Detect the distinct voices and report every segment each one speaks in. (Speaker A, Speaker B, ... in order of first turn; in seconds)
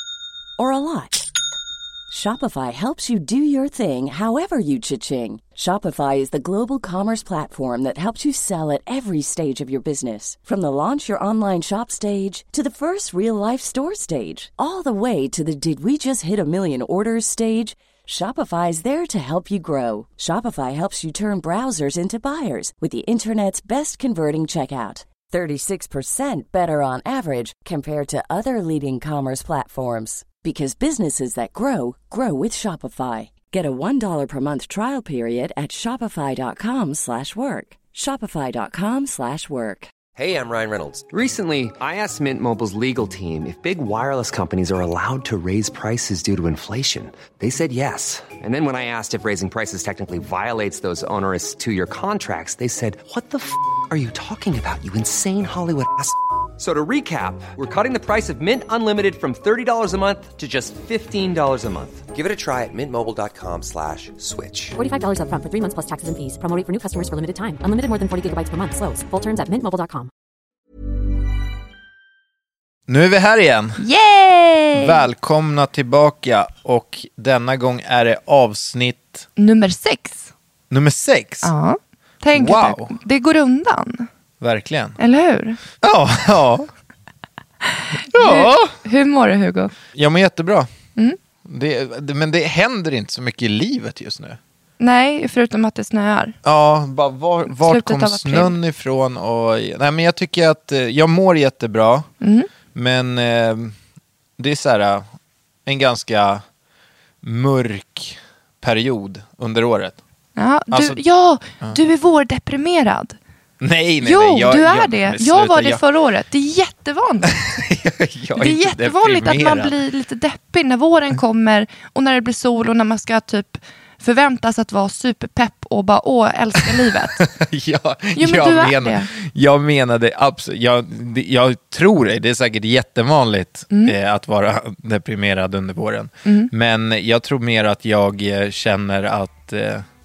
Speaker A: 0.6-1.3, 2.1-39.9
Speaker B: 40.2-64.8
Speaker C: 64.8-70.1
Speaker D: 72.9-73.8, 74.7-79.3, 80.7-81.5, 82.3-82.9, 84.4-85.0, 85.8-86.7, 88.1-88.7, 89.9-90.7, 91.4-94.4, 96.4-102.1, 102.7-103.8, 104.4-105.1, 105.7-106.4, 107.2-110.0, 110.7-111.0, 113.6-115.8, 117.3-119.8, 127.2-139.8
Speaker E: 73.8-75.0, 79.4-80.3, 81.4-84.1, 85.0-85.6, 87.6-89.7, 94.8-96.3, 97.5-98.5, 102.2-102.5, 110.3-113.2, 114.0-117.4, 118.4-127.3, 128.2-129.1, 133.7-133.9, 136.2-136.5